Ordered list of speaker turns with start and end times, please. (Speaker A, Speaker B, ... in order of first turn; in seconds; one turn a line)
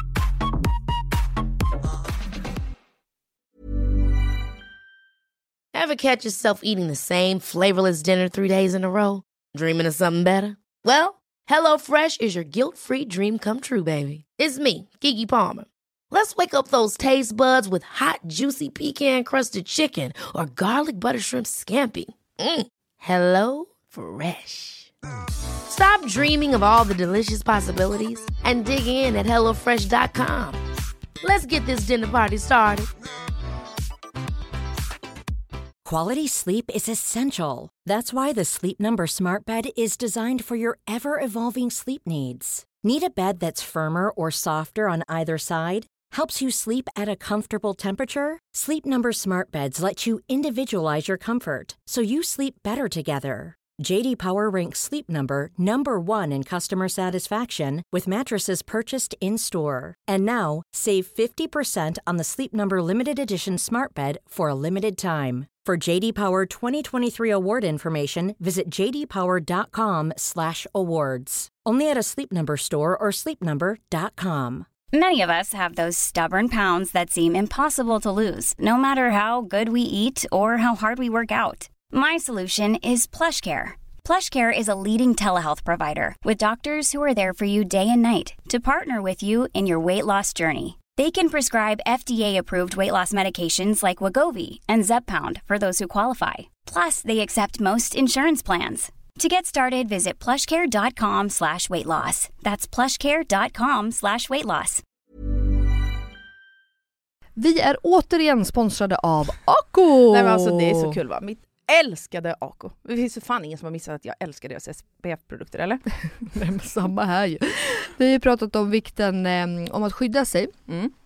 Speaker A: 5.7-24.9
Speaker A: 25.7-30.6
Speaker A: 31.2-32.9
Speaker B: 35.9-74.7
Speaker C: 74.9-104.8
Speaker D: 107.4-111.0
Speaker E: 110.1-115.8
Speaker D: 116.2-120.5